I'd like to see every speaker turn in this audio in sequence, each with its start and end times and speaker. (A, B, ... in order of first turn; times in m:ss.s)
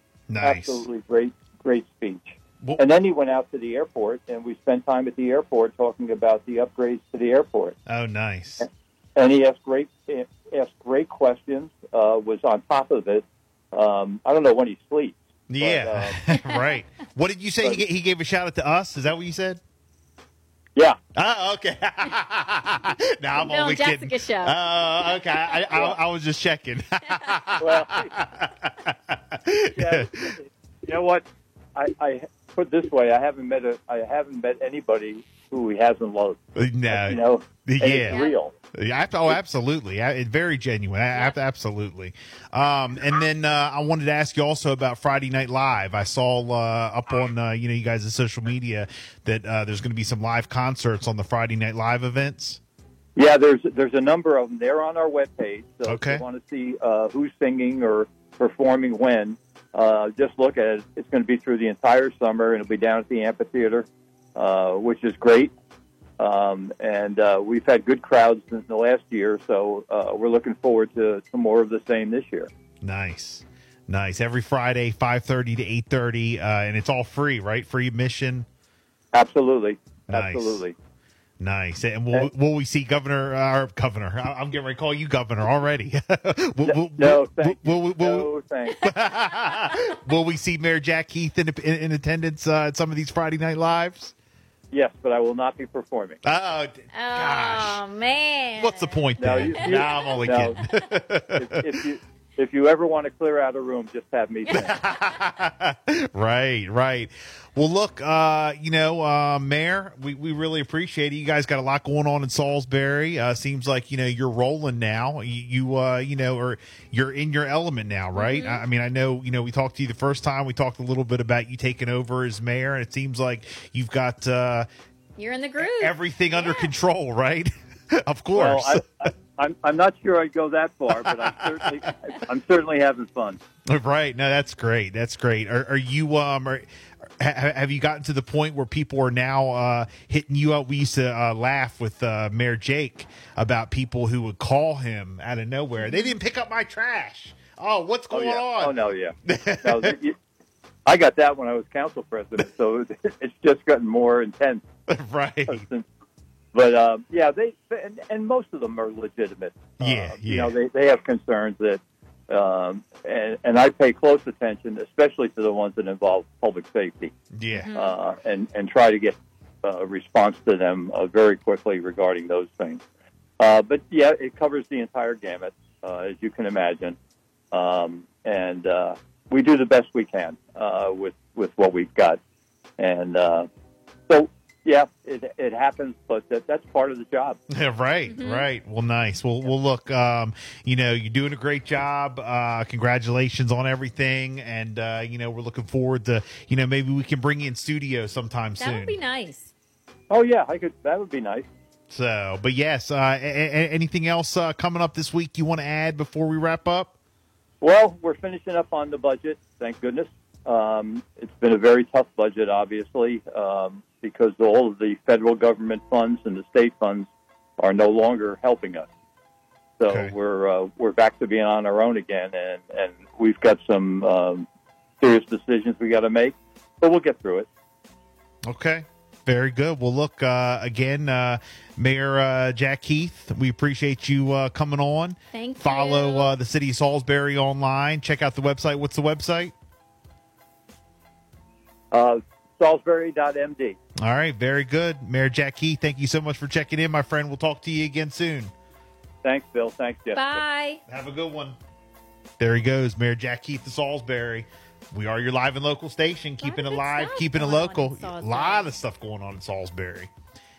0:00.3-0:00.8 A
0:00.4-0:07.8 B
0:07.9-0:08.6 A
0:08.6-0:16.2 B
0:15.5-0:19.6 A
0:16.3-0:16.7 C
0:21.2-0:30.1 A
0:23.4-0:24.6 C
0:27.6-0:28.1 B
0:29.8-0:31.2 B
0:31.8-0:38.5 B
0:36.6-0:52.6 A
0:38.1-0:38.3 C
0:53.2-1:05.5 B
0:55.9-0:56.2 A
1:06.2-1:12.5 B
1:12.8-1:18.4 A
1:19.1-1:20.7 B
1:20.1-1:20.6 A
1:21.4-1:34.1 A
1:26.6-1:28.9 B
1:34.7-1:36.2 B
1:36.2-1:37.8 A
1:36.9-1:40.2 C
1:38.6-1:41.4 A
1:39.2-1:40.6 B
1:41.3-1:44.8 B
1:44.5-2:04.7 A
1:44.6-1:45.2 C
1:58.1-1:58.6 C
2:05.2-2:06.7 C
2:05.6-2:08.8 A
2:08.3-2:13.4 B
2:11.0-2:11.4 A
2:13.7-2:16.7 A
2:17.2-2:29.9 A
2:28.1-2:30.2 B
2:30.9-2:34.6 B
2:34.9-2:35.6 A
2:35.5-2:35.8 B
2:36.5-2:47.1 B
2:39.8-2:40.5 A
2:47.3-2:47.7 A
2:47.5-2:48.0 C
2:47.7-2:52.8 B
2:53.4-2:57.0 B
2:57.5-3:02.2 B
3:02.8-3:03.5 B
3:04.1-3:07.4 B
3:07.5-3:19.0 A
3:08.1-3:08.5 C
3:18.6-3:19.5 C
3:20.1-3:21.5 B
3:21.9-3:26.9 A
3:27.6-3:37.1 B
3:37.6-3:38.9 B
3:39.8-3:44.4 B
3:39.9-3:40.1 A
3:45.0-3:47.5 B
3:48.5-3:59.5 A
3:55.3-3:56.3 C
4:01.9-4:03.8 B
4:04.0-4:08.5 A
4:09.2-4:10.4 B
4:10.1-4:10.8 C
4:10.9-4:11.6 A
4:12.4-4:20.1 A
4:16.4-4:18.7 C